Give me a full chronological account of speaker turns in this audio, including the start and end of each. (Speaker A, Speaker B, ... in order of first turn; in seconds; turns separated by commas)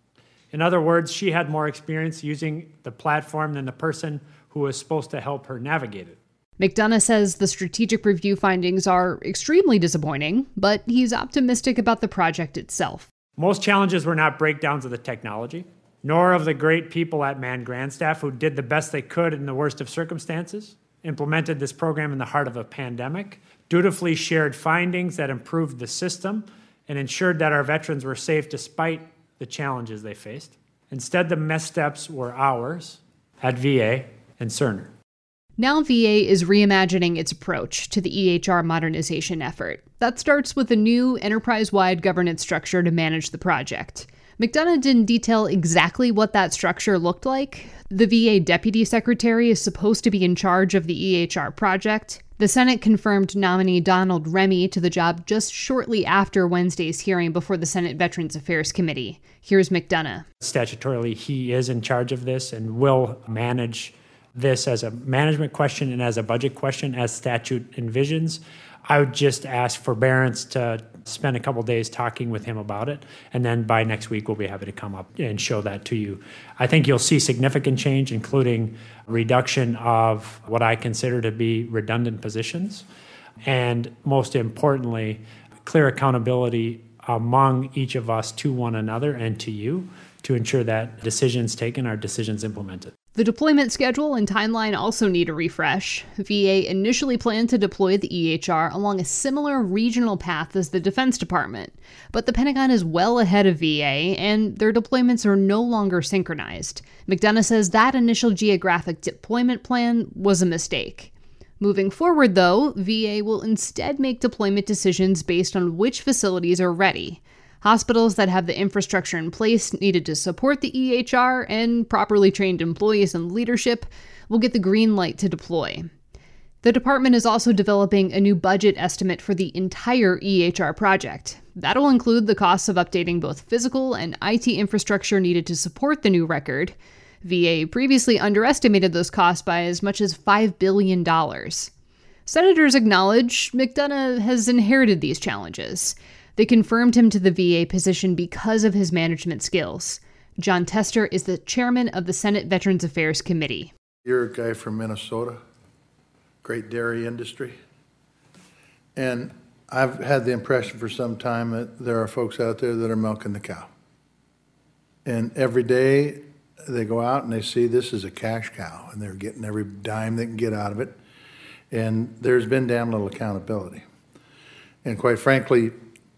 Speaker A: 0.5-6.2, Speaker B: 6.6-13.1, Speaker A: 13.4-34.9, Speaker B: 35.6-60.3, Speaker A: 60.4-82.8, Speaker A: 83.5-92.9, Speaker B: 93.2-125.9, Speaker B: 126.6-141.7, Speaker B: 142.3-153.7, Speaker C: 154.1-155.4, Speaker C: 156.4-157.6, Speaker C: 159.0-163.7, Speaker C: 165.1-170.9, Speaker C: 171.7-173.8, Speaker C: 174.8-175.7